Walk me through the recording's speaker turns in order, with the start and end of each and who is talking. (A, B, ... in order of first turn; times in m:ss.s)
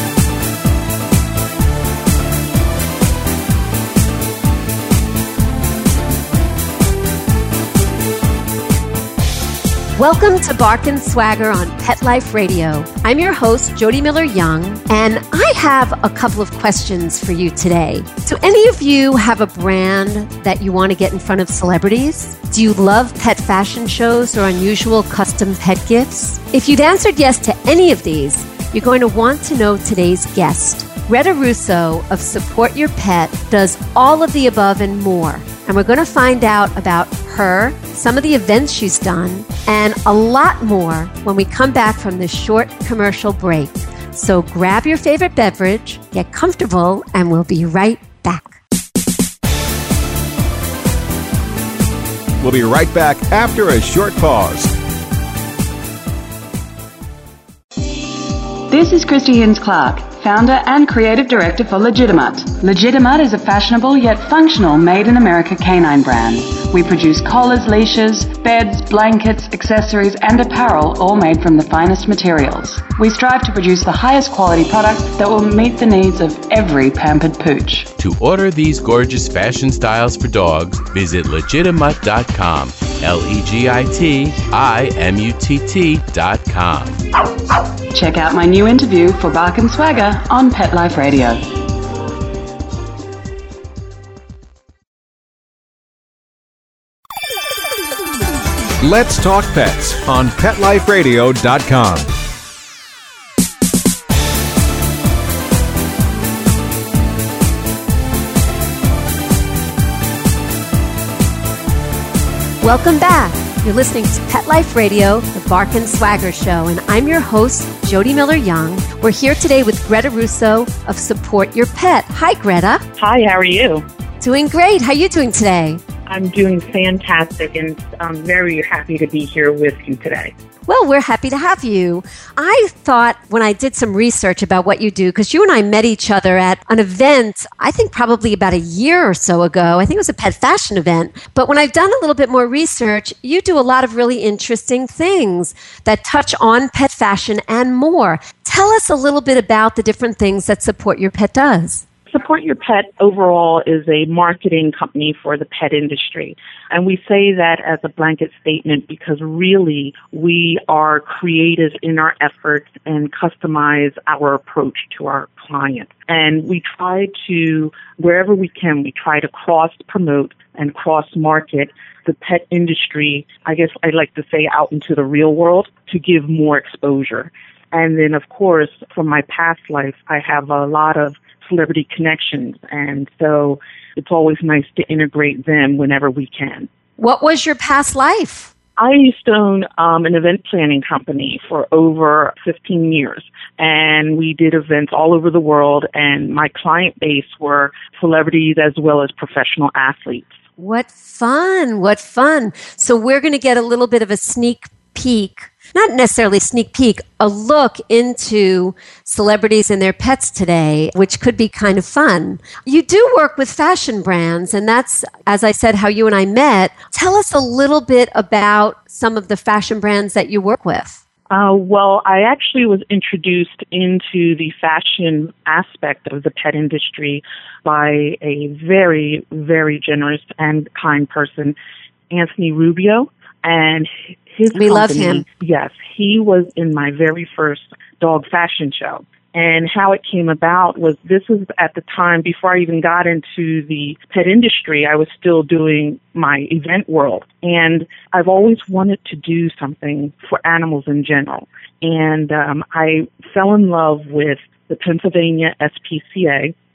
0:10.0-0:48.6 A
0:52.4-0:54.7 B
0:58.7-1:17.8 C
1:17.9-1:27.0 D
1:27.9-1:31.4 C
1:38.8-1:42.1 B
1:52.6-2:02.8 A
2:03.0-2:03.8 E
2:04.2-2:05.8 A
2:06.1-2:10.3 E
2:10.7-2:31.8 A
2:32.1-3:06.7 E
3:07.0-3:08.5 A
3:08.8-3:20.3 E
3:20.6-3:41.0 A
3:41.3-3:51.5 E
3:52.1-4:16.5 E
3:54.5-3:55.2 A